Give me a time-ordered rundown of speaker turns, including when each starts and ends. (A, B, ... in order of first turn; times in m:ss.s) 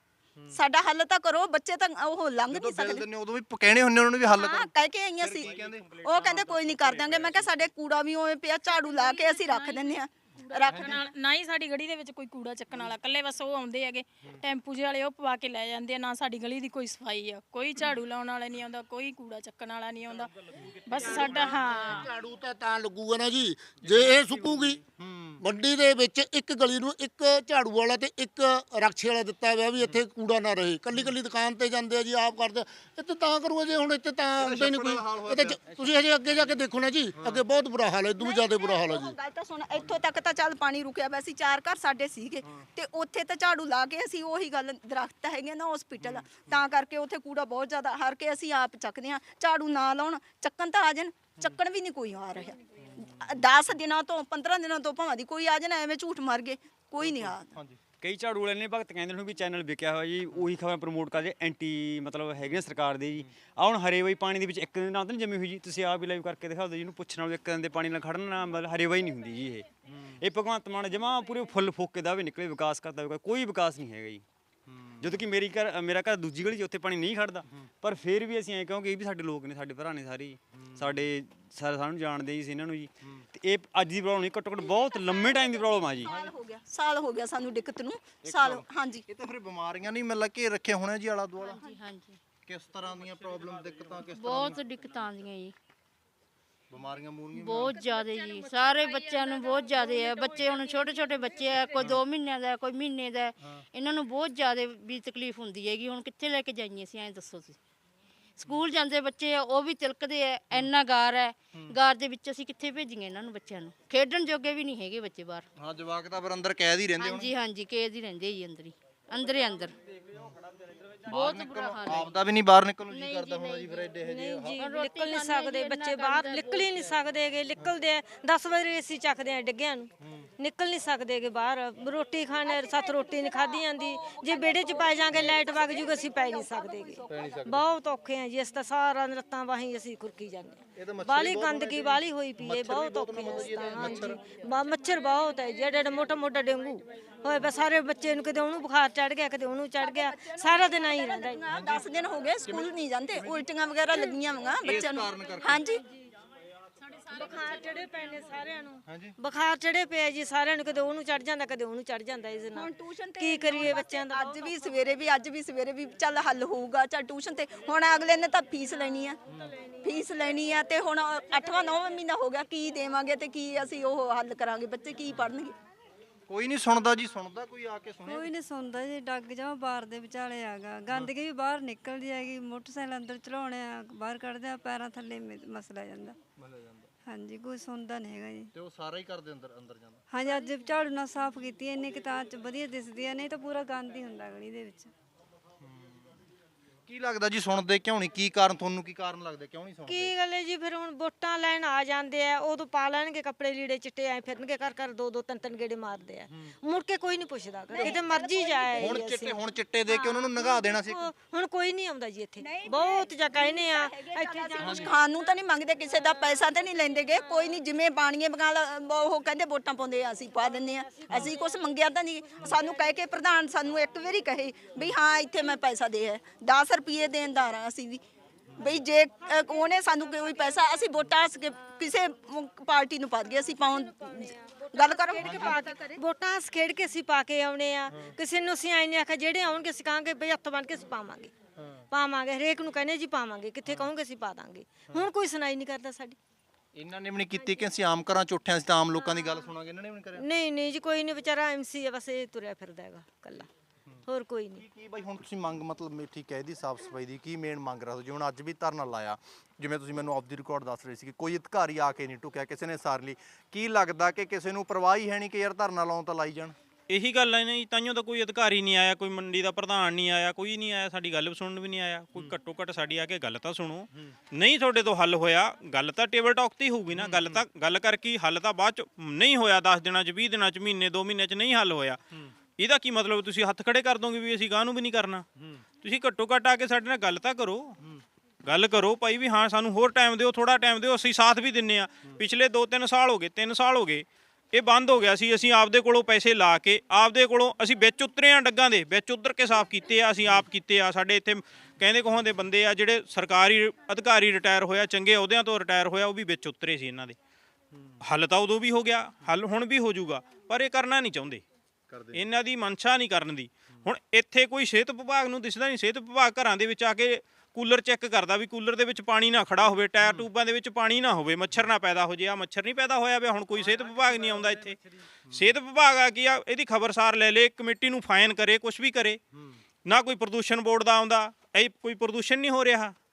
0:00.5-0:03.0 A
0:02.5-0:07.6 B
0:04.2-0:11.0 A
0:08.7-0:20.3 C
0:10.7-0:11.0 B
0:20.8-0:22.1 C
0:21.0-0:24.8 D
0:23.9-0:25.4 B
0:25.4-0:39.1 D
0:34.4-0:36.6 B
0:37.2-0:37.4 B
0:38.2-0:57.5 A
0:46.0-0:46.6 B
0:52.8-0:53.2 B
0:57.0-0:57.8 B
0:58.0-1:09.7 E
1:09.9-1:10.1 B
1:10.2-1:14.2 E
1:14.7-1:15.2 B
1:15.0-1:26.1 E
1:20.6-1:21.0 B
1:25.1-1:29.0 A
1:28.2-1:31.6 B
1:31.4-1:32.2 F
1:32.4-1:34.7 B
1:34.1-1:35.5 F
1:36.7-1:38.0 B
1:37.3-1:47.6 F
1:48.4-1:55.4 F
1:55.6-1:57.3 B
1:57.0-1:59.7 F
2:01.0-2:02.1 F
2:01.0-2:04.6 B
2:02.9-2:03.9 F
2:04.0-2:31.4 G
2:04.6-2:07.0 F
2:12.4-2:17.3 A
2:17.1-2:17.6 B
2:20.8-2:24.2 B
2:23.8-2:24.1 A
2:29.8-2:35.8 A
2:31.5-2:31.9 B
2:32.4-2:33.4 B
2:34.6-2:35.6 B
2:37.0-2:44.5 G
2:38.9-2:39.1 B
2:42.5-2:49.2 A
2:49.8-2:55.5 A
2:56.3-2:58.3 B
2:58.0-3:06.2 H
3:06.4-3:06.9 B
3:07.1-3:08.5 H
3:08.5-3:10.0 B
3:10.1-3:14.9 H
3:15.6-3:15.9 B
3:16.9-3:20.1 B
3:19.8-3:29.4 G
3:27.7-3:29.2 A
3:28.8-3:31.1 B
3:29.9-3:34.9 G
3:32.4-3:48.0 A
3:34.6-3:34.9 B
3:48.5-3:48.8 B
3:48.6-3:56.0 A
3:54.8-4:01.3 G
3:55.2-3:55.6 B
4:01.9-4:06.2 G
4:06.7-4:10.2 B
4:10.2-4:13.5 G
4:14.0-4:14.6 G
4:14.6-4:26.5 B
4:26.9-4:42.0 I
4:36.9-4:37.4 B
4:42.6-4:45.3 I
4:45.8-4:47.8 I
4:48.4-5:07.2 I
5:08.0-5:11.4 I
5:11.9-5:12.2 B
5:12.1-5:24.8 I
5:24.2-5:24.7 B
5:25.3-5:29.2 I
5:29.8-5:33.0 I